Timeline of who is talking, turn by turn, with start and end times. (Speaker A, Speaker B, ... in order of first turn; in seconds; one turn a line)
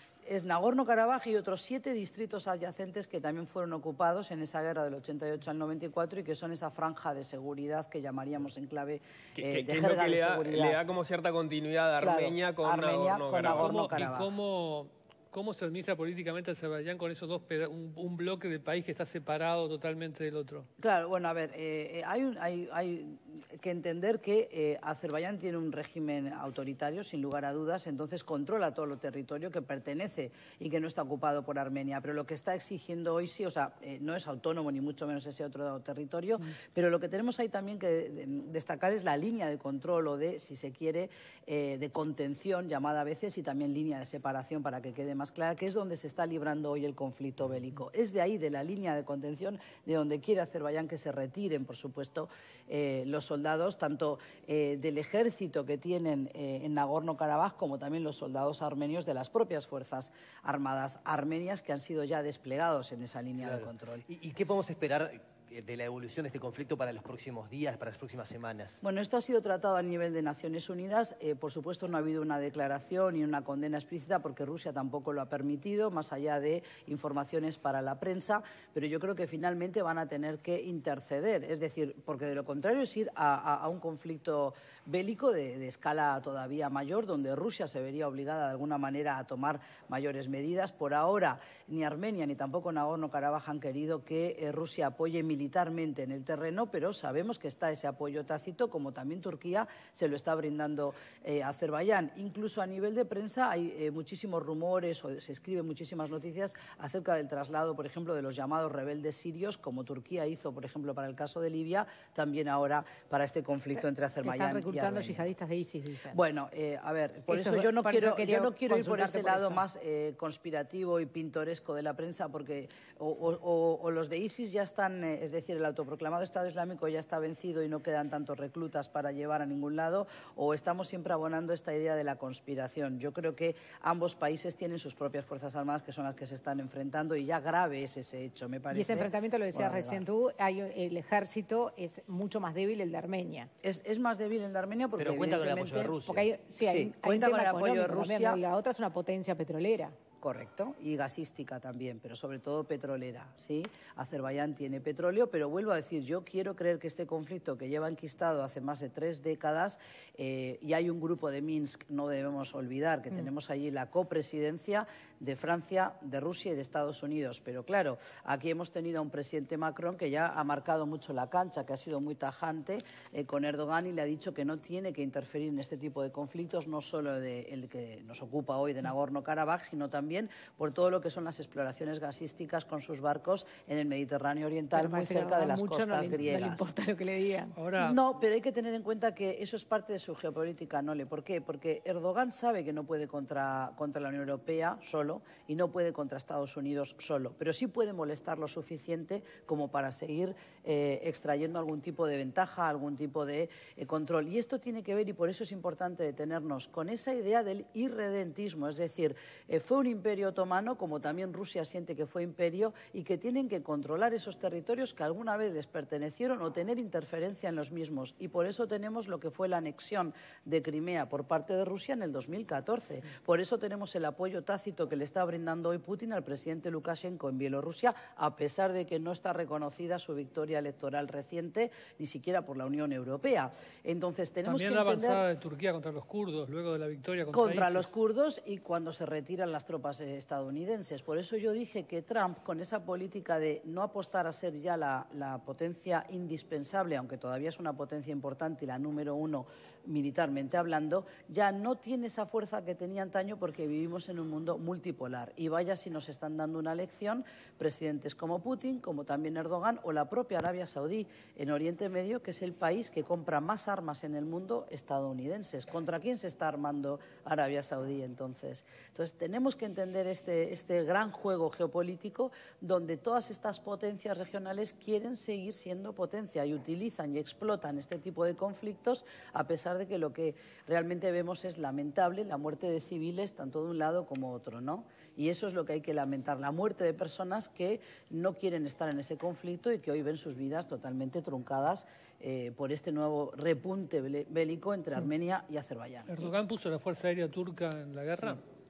Speaker A: 0.3-10.8
Speaker B: 9.4-13.8
Speaker A: 12.0-14.3
Speaker C: 13.4-20.7
Speaker A: 20.8-64.0
Speaker D: 63.5-68.8
Speaker A: 68.8-115.3
Speaker E: 114.2-116.2
Speaker A: 116.1-140.0
Speaker E: 117.3-119.6
Speaker E: 138.7-143.5
Speaker A: 143.6-146.0
Speaker D: 145.0-146.3
Speaker E: 146.1-149.9
Speaker A: 146.6-148.4
Speaker A: 150.2-186.7
Speaker E: 184.7-187.6
Speaker C: 187.6-188.0
Speaker A: 187.8-235.2
Speaker C: 234.4-237.9
Speaker A: 237.3-296.3
Speaker C: 296.1-298.4